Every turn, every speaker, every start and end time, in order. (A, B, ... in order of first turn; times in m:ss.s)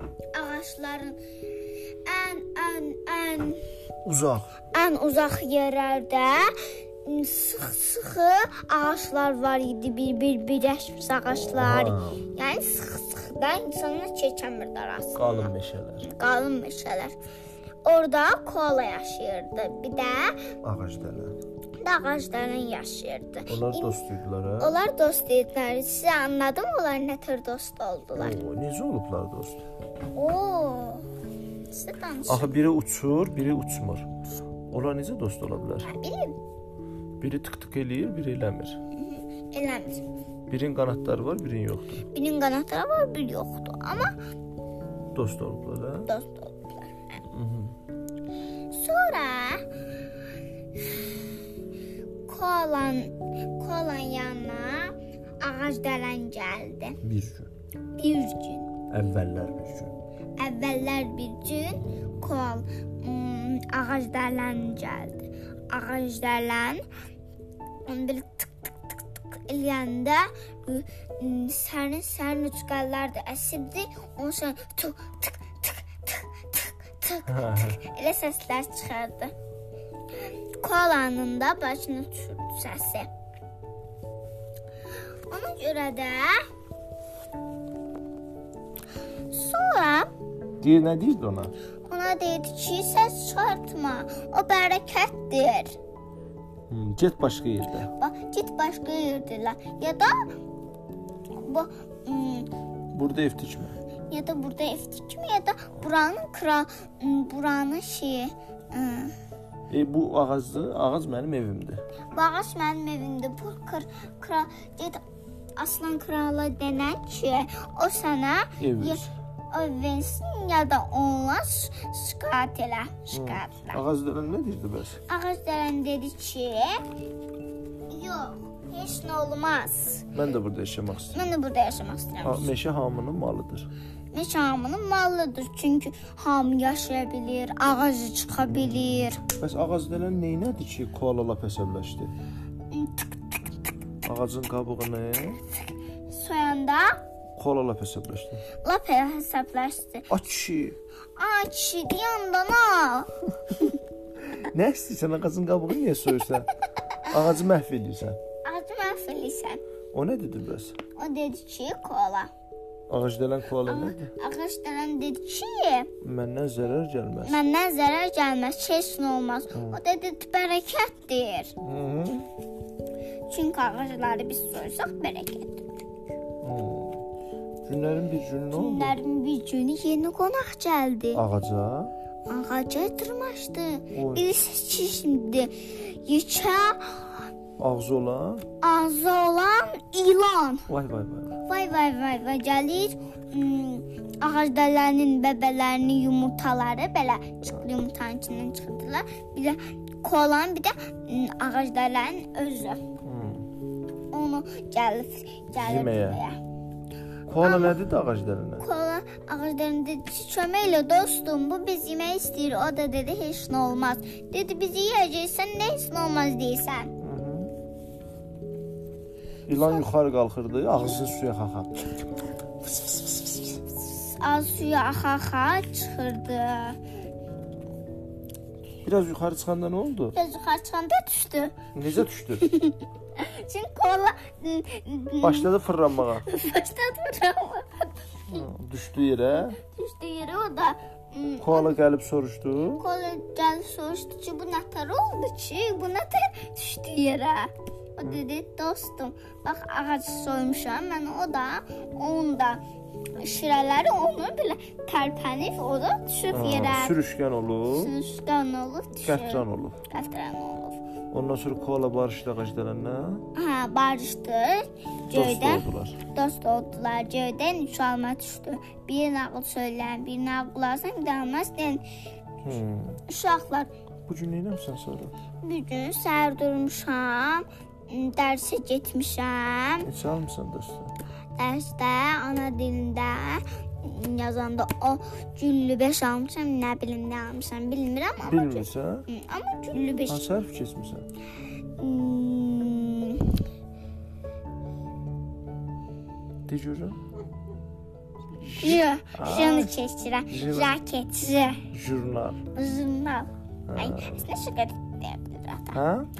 0:00.3-0:01.2 A
0:02.0-0:03.6 A
0:04.0-0:04.5 B
0:04.7-0:17.1 A
0:11.4-0:12.3 B
0:15.1-0:16.1 B
0:17.8-0:20.5 A
0:20.6-0:21.4 B
0:21.8-0:24.0 A
0:23.5-0:24.8 B
0:24.6-0:28.4 A
0:28.2-0:29.6 B
0:30.1-0:31.1 A
0:31.7-0:32.5 A
0:32.3-0:34.1 B
0:34.7-0:35.9 B
0:35.8-0:36.4 A
0:37.2-0:38.8 B
0:38.9-0:40.0 A
0:40.5-0:42.1 B
0:42.1-0:44.1 A
0:45.1-0:46.1 B
0:46.0-0:47.2 A
0:47.3-0:47.7 B
0:48.7-0:49.6 A
0:50.8-0:51.1 A
0:52.3-0:57.0 A
0:57.0-0:57.5 B
0:57.9-0:58.8 A
0:58.9-0:59.9 B
1:00.4-1:06.8 A
1:07.8-1:19.3 A
1:17.3-1:17.8 B
1:20.6-1:23.1 A
1:25.3-1:26.4 A
1:29.3-1:30.1 A
1:30.6-1:31.5 B
1:31.9-1:35.8 A
1:36.7-1:37.9 B
1:38.0-1:40.3 A
1:41.3-1:42.5 A
1:42.9-1:43.8 B
1:44.1-1:49.1 A
1:49.7-1:51.8 B
1:52.1-1:55.0 A
1:55.6-2:03.8 A
1:58.6-1:59.1 B
2:03.1-2:05.0 B
2:05.1-2:06.8 A
2:07.9-2:10.1 A
2:10.1-2:11.3 B
2:11.1-2:12.5 A
2:12.2-2:13.7 B
2:14.1-2:19.2 A
2:19.3-2:22.1 B
2:22.7-2:23.4 A
2:24.0-2:25.4 B
2:26.1-2:27.0 A
2:27.4-2:28.4 B
2:28.6-2:30.1 A
2:30.1-2:30.8 B
2:31.2-2:33.8 A
2:34.3-2:36.5 B
2:37.0-2:38.2 B
2:38.4-2:39.6 A
2:39.9-2:40.7 B
2:41.0-2:42.3 A
2:42.9-2:44.1 B
2:43.6-2:45.9 A
2:46.0-2:47.4 B
2:47.2-2:51.5 A
2:49.5-2:49.8 B
2:51.6-2:52.3 B
2:53.3-2:55.7 A
2:56.4-2:57.0 B
2:57.6-2:59.0 B
2:58.5-3:01.2 A
3:01.1-3:01.9 B
3:02.3-3:07.2 A
3:03.9-3:04.3 B
3:07.6-3:08.4 B
3:08.6-3:10.7 A
3:10.7-3:11.4 B
3:11.4-3:22.8 A
3:23.0-3:23.5 B
3:24.1-3:26.4 A
3:25.6-3:26.2 B
3:27.3-3:28.6 B
3:27.4-3:27.8 A
3:28.6-3:36.9 A
3:37.0-3:37.5 B
3:39.5-3:41.9 B
3:42.6-3:46.8 A
3:48.8-3:50.2 B
3:50.1-3:51.6 A
3:51.7-3:52.5 B
3:52.4-3:55.5 A
3:55.2-3:56.3 B
3:56.1-3:58.4 A
3:58.3-3:59.6 B
3:59.6-4:01.7 A
4:01.4-4:02.8 B
4:02.8-4:12.6 A
4:13.2-4:17.0 A
4:16.3-4:17.9 B
4:17.7-4:20.8 A
4:19.0-4:19.8 B
4:21.1-4:23.2 B
4:23.3-4:31.8 A
4:25.1-4:26.0 B
4:32.4-4:33.0 B
4:33.1-4:33.7 A
4:34.1-4:35.1 B
4:35.4-4:39.9 A
4:39.8-4:40.9 B
4:41.4-4:50.2 A
4:48.2-4:49.1 B
4:50.1-4:51.0 B
4:51.8-4:53.4 A
4:56.5-4:57.0 B
4:58.4-4:59.8 B
4:58.6-5:01.6 A
5:00.3-5:00.8 B
5:01.7-5:02.4 B
5:02.5-5:05.8 A
5:03.7-5:04.3 B
5:05.7-5:06.1 B